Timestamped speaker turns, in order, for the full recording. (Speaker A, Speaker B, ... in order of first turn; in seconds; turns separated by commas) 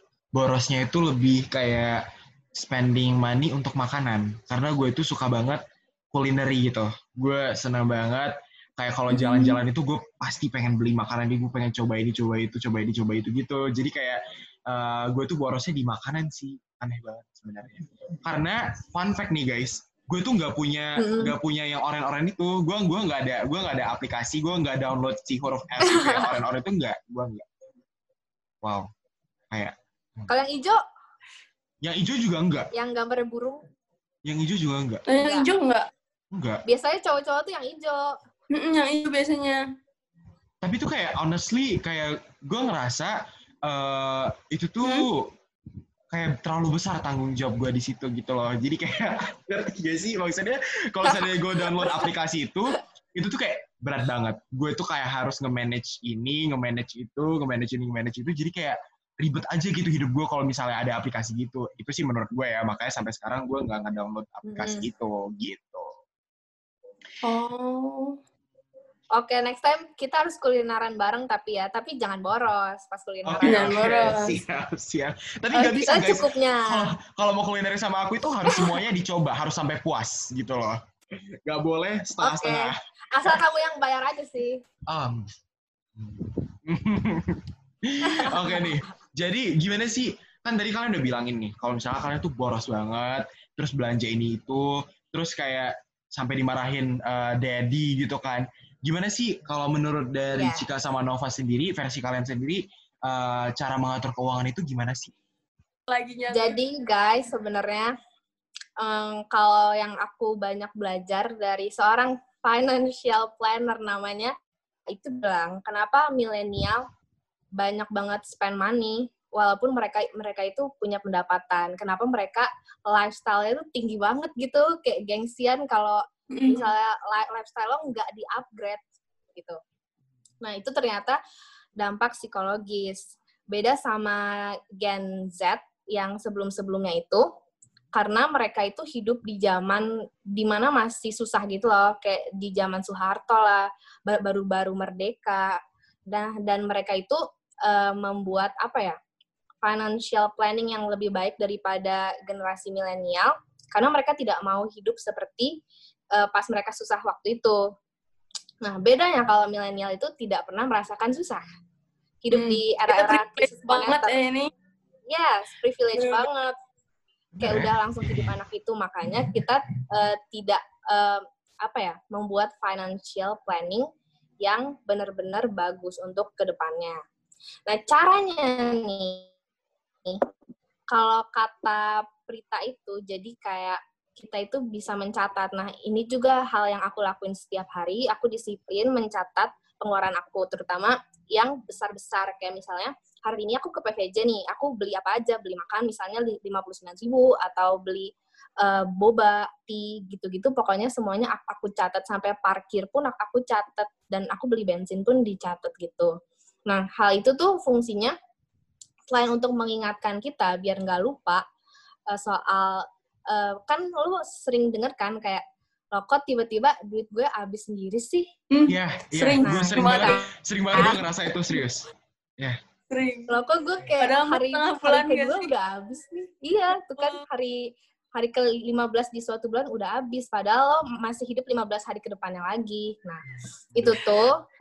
Speaker A: 0.3-27.4, Speaker B: 9.1-9.6, Speaker C: 20.9-21.3, Speaker C: 25.8-26.3, Speaker A: 28.6-28.9, Speaker A: 29.5-30.3, Speaker C: 30.3-30.8, Speaker A: 31.8-32.7, Speaker C: 32.7-33.6, Speaker A: 34.2-35.0, Speaker B: 35.1-35.9, Speaker C: 35.2-35.5, Speaker A: 36.3-36.6, Speaker C: 36.7-38.2, Speaker B: 38.5-39.6, Speaker A: 40.6-45.3, Speaker B: 44.8-45.1, Speaker A: 46.1-65.9, Speaker C: 64.5-64.8, Speaker B: 67.2-68.2, Speaker C: 69.1-74.0, Speaker A: 73.2-83.4, Speaker B: 73.4-74.4, Speaker C: 75.5-76.9, Speaker C: 82.2-84.6, Speaker A: 84.9-85.3, Speaker A: 86.0-105.1, Speaker C: 88.0-88.8, Speaker C: 100.4-100.7, Speaker B: 105.9-106.6, Speaker C: 106.3-107.9, Speaker C: 108.8-114.3, Speaker C: 114.9-116.8, Speaker C: 117.6-128.8, Speaker B: 126.3-126.7, Speaker C: 130.4-131.2, Speaker C: 131.8-134.2, Speaker C: 134.8-137.3, Speaker C: 137.9-149.0, Speaker C: 149.6-155.6, Speaker C: 156.1-157.7, Speaker C: 158.6-161.4, Speaker C: 162.2-164.1, Speaker B: 162.3-164.5, Speaker C: 165.1-166.5, Speaker B: 165.9-166.2, Speaker A: 167.3-168.3, Speaker C: 167.4-173.9, Speaker C: 174.4-177.0, Speaker C: 177.7-179.3, Speaker C: 180.9-206.1, Speaker C: 206.7-208.1, Speaker C: 209.1-211.4, Speaker C: 212.1-218.3, Speaker B: 218.5-220.3, Speaker A: 218.7-221.9, Speaker C: 219.4-220.2, Speaker C: 220.7-221.0, Speaker B: 222.9-223.3, Speaker C: 223.3-234.4, Speaker B: 224.0-225.5, Speaker B: 227.0-227.2